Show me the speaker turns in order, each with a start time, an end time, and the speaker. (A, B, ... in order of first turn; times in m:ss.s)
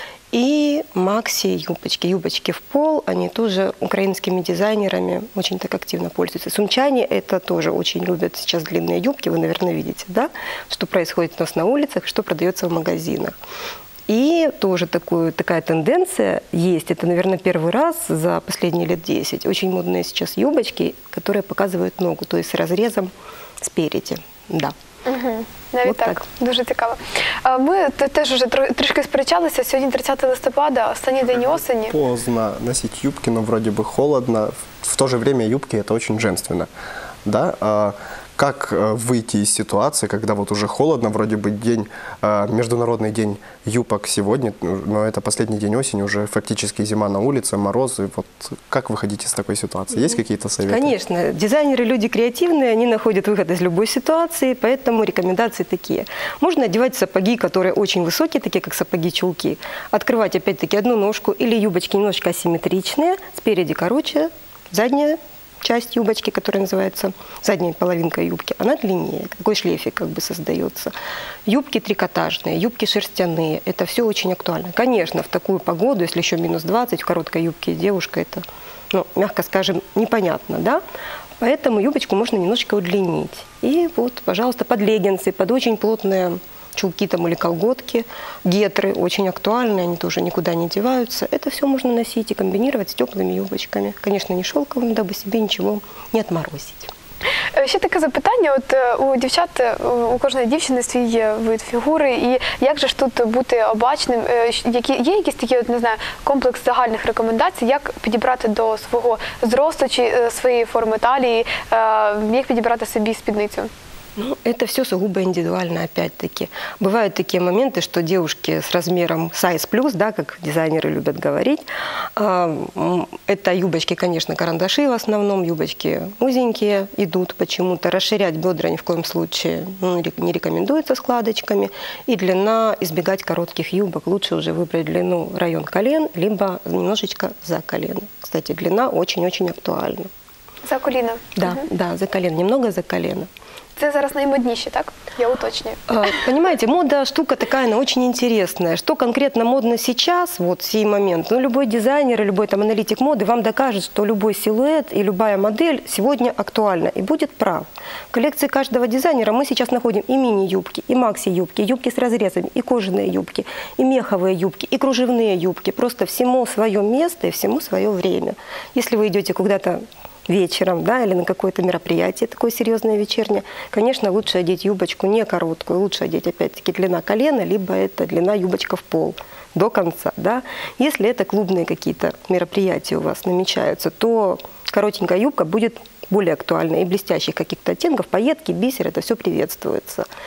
0:00.3-0:13.3 A
0:14.1-0:23.1 A
0:23.6-0:24.7 A
0:25.1-0:32.0 B
0:25.8-0:26.2 A
0:31.9-0:36.7 C
0:37.2-0:50.9 C
0:50.6-1:10.9 A
1:11.5-1:20.8 A
1:21.4-1:36.9 A
1:37.5-1:53.7 B
1:54.2-2:20.1 A
2:20.6-2:21.6 B
2:21.4-2:23.3 A
2:23.8-2:25.8 B
2:25.9-3:10.1 A